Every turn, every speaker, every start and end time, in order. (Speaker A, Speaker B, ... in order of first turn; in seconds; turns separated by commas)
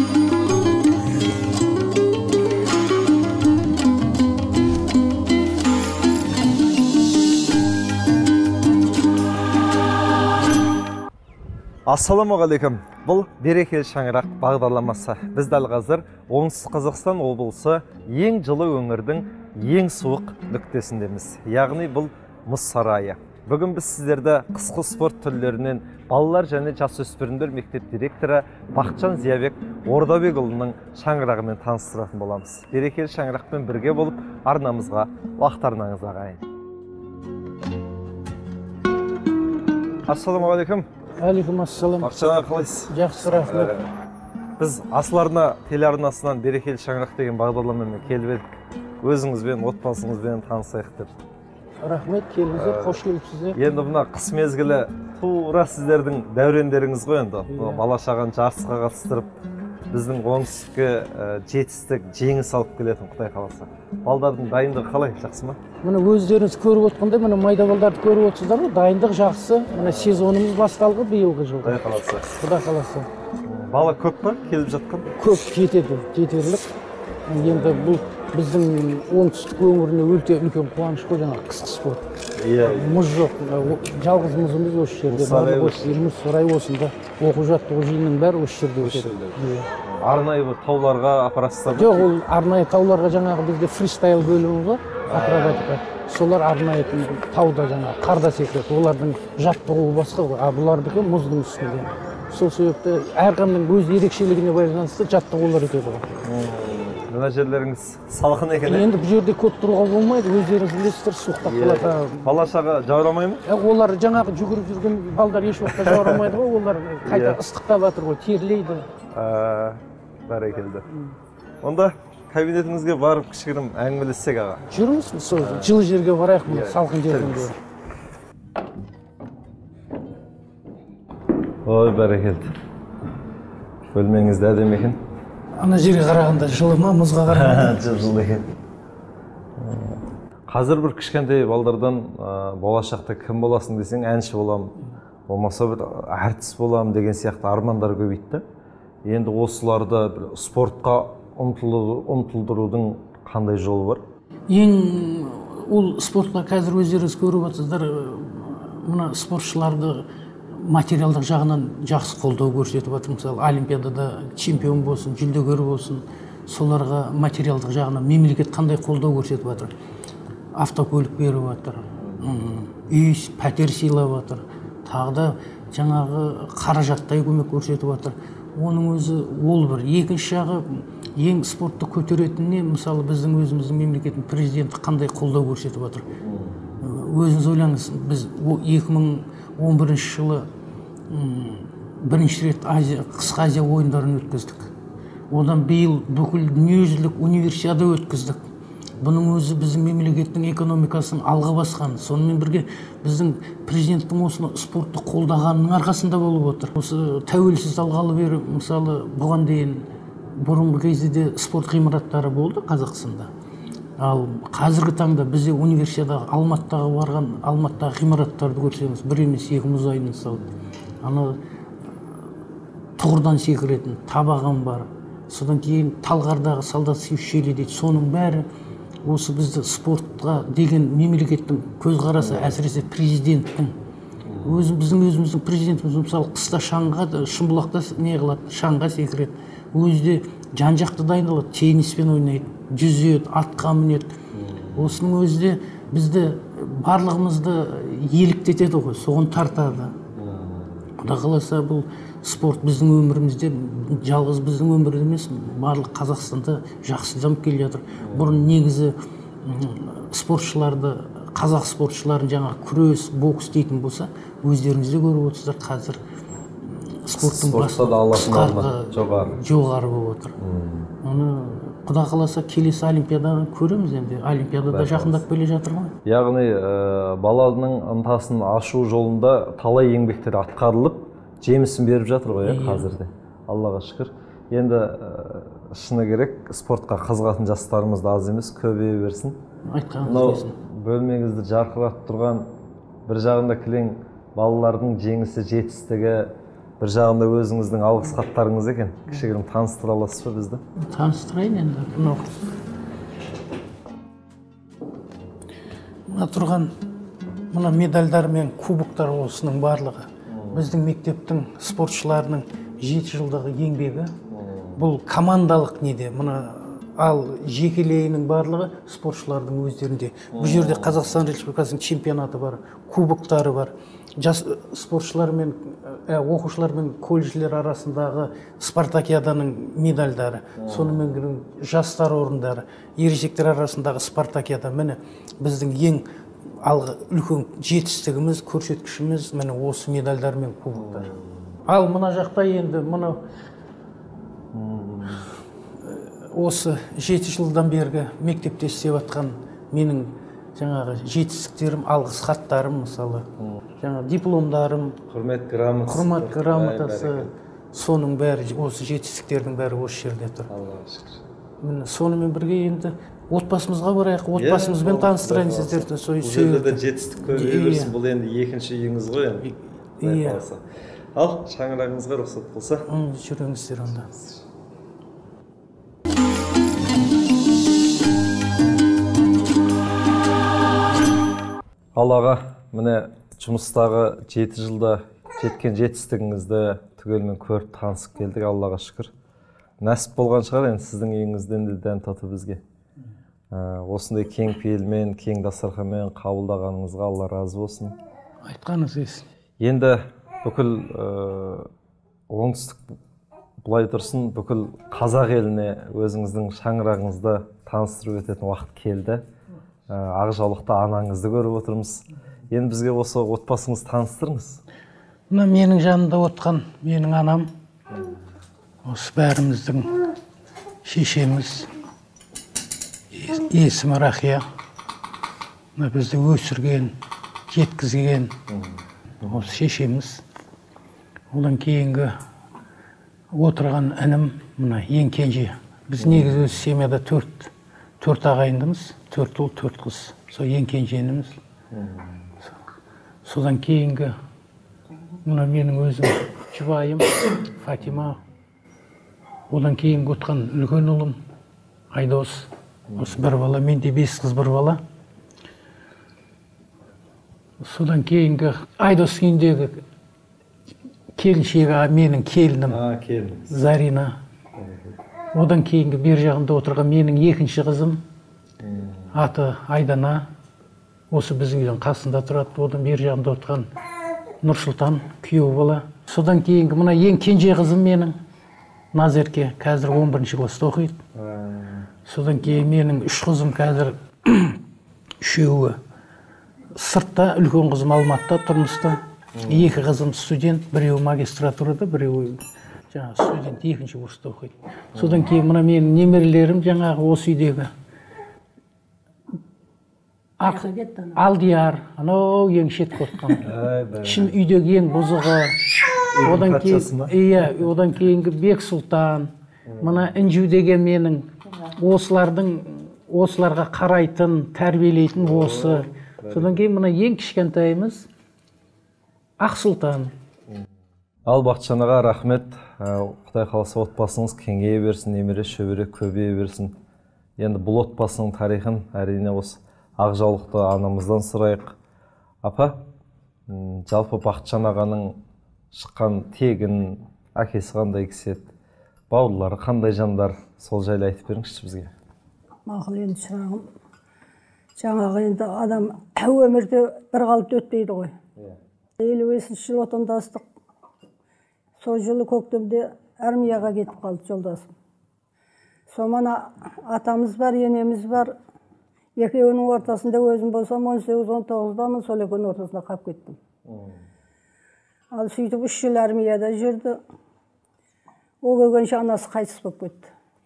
Speaker A: 11.9-36.4, Speaker A: 40.1-40.9, Speaker B: 41.2-42.2, Speaker A: 42.0-43.9, Speaker B: 42.9-43.8, Speaker A: 44.6-51.1, Speaker B: 51.8-53.6, Speaker A: 52.5-53.0, Speaker A: 53.5-59.4, Speaker B: 57.5-57.8, Speaker A: 59.9-65.6, Speaker B: 65.8-73.1, Speaker A: 69.8-70.3, Speaker A: 71.6-72.3, Speaker A: 73.5-75.2, Speaker B: 75.2-76.7, Speaker B: 77.3-82.1, Speaker A: 77.3-78.1, Speaker A: 82.4-83.0, Speaker B: 82.6-89.7, Speaker A: 85.1-86.1, Speaker A: 88.8-92.1, Speaker B: 91.7-106.1, Speaker A: 95.1-95.7, Speaker A: 106.2-108.9, Speaker B: 108.7-112.3, Speaker A: 111.4-113.4, Speaker B: 113.5-118.9, Speaker A: 115.7-116.3, Speaker A: 117.0-117.4, Speaker A: 119.1-120.9, Speaker A: 121.6-124.7, Speaker B: 124.7-127.5, Speaker A: 125.4-125.8, Speaker A: 126.5-127.5, Speaker A: 131.7-132.5, Speaker A: 133.9-135.0, Speaker B: 135.6-137.8, Speaker A: 137.3-138.5, Speaker A: 139.6-144.7, Speaker A: 145.3-148.4, Speaker A: 149.1-154.0, Speaker B: 154.5-169.7, Speaker B: 170.6-186.1, Speaker A: 172.0-172.3, Speaker A: 186.2-186.7, Speaker B: 186.8-190.5, Speaker B: 191.1-194.7, Speaker B: 195.3-198.4, Speaker B: 199.0-213.3, Speaker B: 214.0-220.5, Speaker B: 221.0-221.4, Speaker B: 223.0-228.5, Speaker B: 229.0-233.8, Speaker A: 232.2-232.5, Speaker A: 234.2-234.7, Speaker B: 234.4-244.1, Speaker A: 244.3-245.0, Speaker B: 244.8-250.0, Speaker A: 250.2-250.8, Speaker B: 251.0-266.0, Speaker A: 258.0-258.4, Speaker B: 266.7-270.4, Speaker A: 267.2-269.4, Speaker A: 270.4-270.9, Speaker B: 271.0-275.9, Speaker A: 274.7-275.2, Speaker A: 276.1-289.4, Speaker B: 282.4-282.9, Speaker B: 289.7-290.6, Speaker A: 290.0-292.5, Speaker A: 293.1-300.6, Speaker B: 300.8-302.3, Speaker B: 306.1-306.7, Speaker B: 307.5-314.1, Speaker A: 310.3-310.7, Speaker A: 314.3-314.8, Speaker B: 314.8-336.1, Speaker A: 320.3-321.1, Speaker A: 330.6-331.0, Speaker B: 336.6-341.1, Speaker A: 340.7-341.6, Speaker B: 341.6-343.2, Speaker A: 344.5-345.3, Speaker B: 345.8-353.3, Speaker B: 353.8-355.0, Speaker A: 355.1-357.3, Speaker B: 355.9-360.5, Speaker A: 360.5-361.2, Speaker B: 361.6-367.9, Speaker A: 364.4-369.5, Speaker B: 369.4-370.5, Speaker A: 370.0-372.9, Speaker B: 372.9-374.1, Speaker A: 381.9-389.1, Speaker A: 389.8-392.6, Speaker A: 393.5-398.0, Speaker B: 398.4-399.3, Speaker A: 399.6-401.7, Speaker A: 402.3-402.9, Speaker A: 403.6-409.2, Speaker A: 409.9-414.6, Speaker B: 415.3-417.5, Speaker B: 418.9-420.0, Speaker B: 420.8-421.7, Speaker B: 423.1-424.4, Speaker B: 425.8-426.9, Speaker B: 427.5-428.4, Speaker A: 428.5-429.4, Speaker B: 429.2-430.2, Speaker B: 431.3-432.1, Speaker B: 433.3-441.4, Speaker A: 436.0-436.5, Speaker A: 441.7-442.2, Speaker B: 443.2-444.1, Speaker B: 445.2-448.2, Speaker B: 449.5-451.2, Speaker B: 451.9-454.8, Speaker A: 452.9-453.2, Speaker B: 457.6-459.8, Speaker B: 461.2-462.8, Speaker A: 462.7-463.5, Speaker B: 463.5-464.2, Speaker A: 464.6-465.0, Speaker B: 465.3-468.0, Speaker A: 468.6-469.1, Speaker B: 469.1-470.3, Speaker B: 471.1-473.7, Speaker B: 474.4-478.1, Speaker B: 478.9-481.0, Speaker A: 481.1-481.9, Speaker B: 482.1-484.6, Speaker B: 485.2-485.8, Speaker B: 486.8-497.7, Speaker A: 489.4-489.7, Speaker A: 494.9-495.2, Speaker B: 500.4-503.5, Speaker C: 500.4-501.2, Speaker A: 503.4-504.3, Speaker B: 504.0-505.6, Speaker A: 506.1-507.1, Speaker B: 506.2-518.1, Speaker A: 509.7-510.1, Speaker A: 515.2-516.6, Speaker B: 519.4-520.1, Speaker A: 521.3-526.8, Speaker A: 527.4-531.7, Speaker A: 532.4-532.8, Speaker A: 533.5-535.2, Speaker A: 535.7-538.5, Speaker A: 539.1-541.9, Speaker C: 542.7-543.7, Speaker C: 544.8-548.1, Speaker C: 549.0-550.4, Speaker C: 551.8-554.7, Speaker C: 555.9-558.3, Speaker C: 559.2-563.4, Speaker A: 563.7-564.0, Speaker C: 565.1-567.0, Speaker C: 568.4-570.1